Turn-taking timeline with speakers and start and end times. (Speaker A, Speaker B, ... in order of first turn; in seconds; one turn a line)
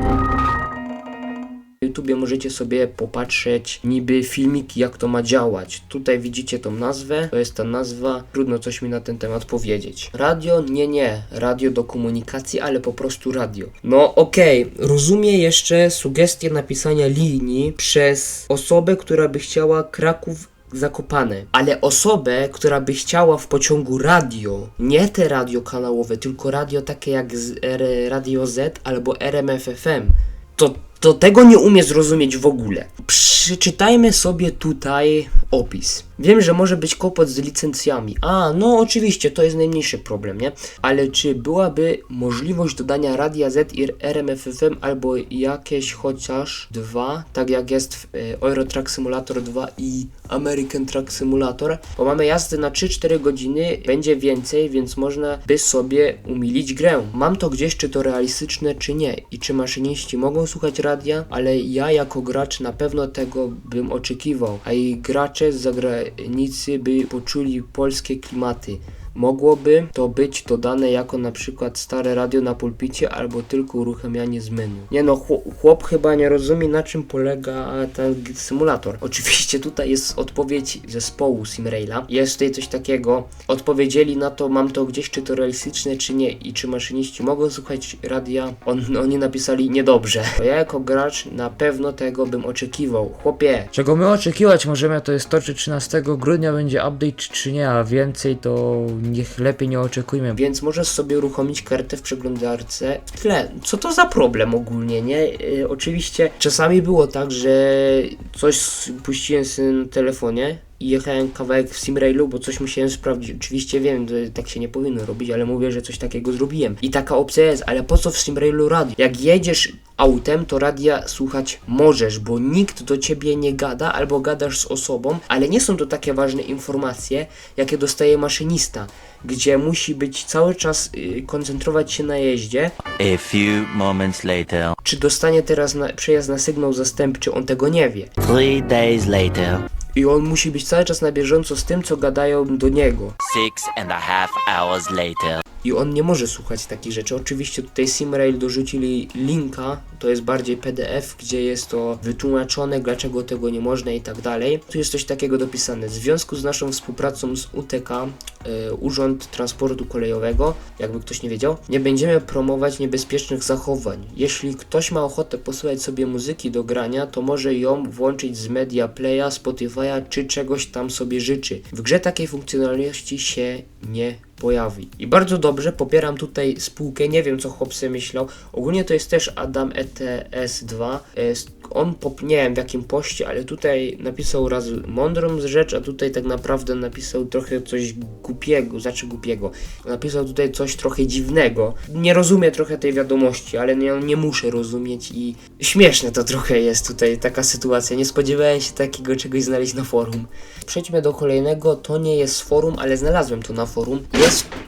Speaker A: 1.8-93.8
Speaker B: 94.0-100.1
Speaker A: 100.2-132.8
Speaker C: 133.0-134.7
Speaker A: 134.8-138.1
Speaker C: 138.2-139.7
Speaker A: 139.9-143.2
Speaker C: 143.2-145.4
Speaker A: 145.6-204.5